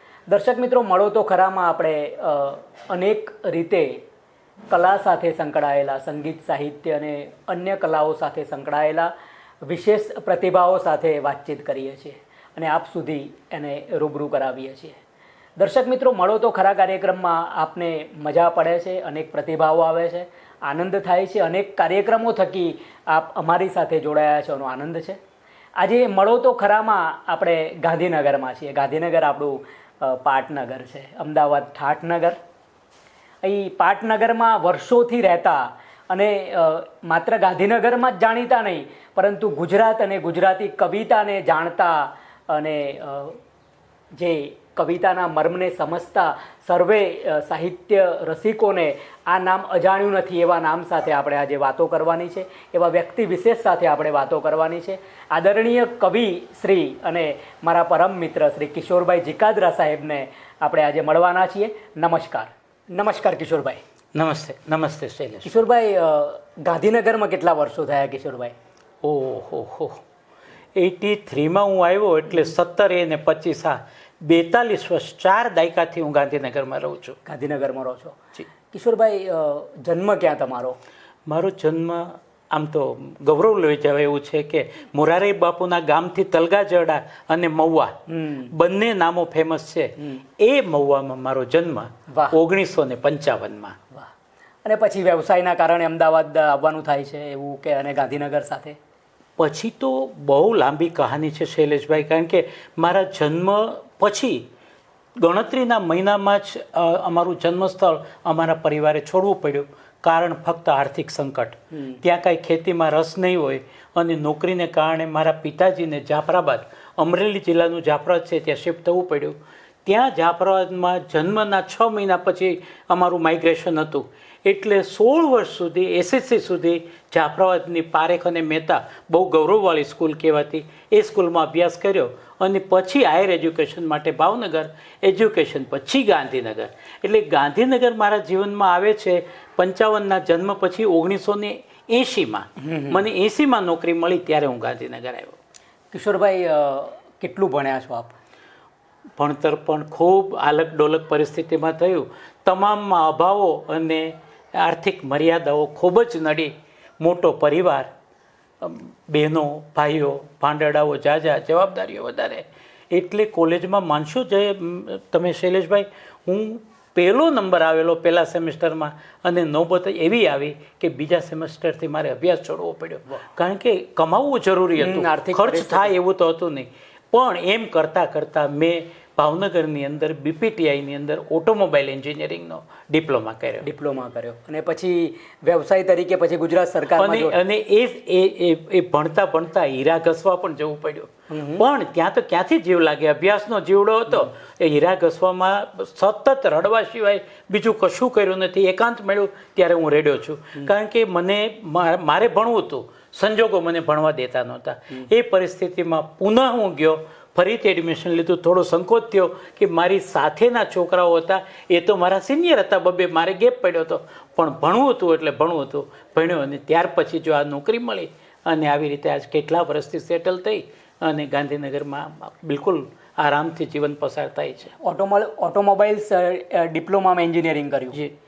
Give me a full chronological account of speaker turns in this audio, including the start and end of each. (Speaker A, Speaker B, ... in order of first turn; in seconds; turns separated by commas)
Speaker A: 0.3-4.0, Speaker A: 4.7-9.1, Speaker A: 9.7-15.0, Speaker A: 15.6-25.2, Speaker A: 25.8-32.4, Speaker A: 33.4-43.4, Speaker A: 44.2-63.8, Speaker B: 64.2-65.5, Speaker A: 65.4-68.5, Speaker B: 69.0-70.0, Speaker B: 70.8-77.2, Speaker A: 77.3-78.2, Speaker A: 78.7-80.8, Speaker B: 81.3-88.0, Speaker A: 88.1-88.5, Speaker B: 88.5-93.8, Speaker A: 92.1-92.4, Speaker A: 94.7-98.8, Speaker B: 99.4-104.5, Speaker B: 105.2-145.4, Speaker A: 111.7-112.0, Speaker A: 142.6-143.0, Speaker A: 145.9-148.2, Speaker B: 149.2-157.9, Speaker B: 158.6-183.7, Speaker A: 174.8-175.9, Speaker A: 183.6-187.4, Speaker B: 187.0-224.7, Speaker A: 191.3-191.7, Speaker A: 224.8-228.0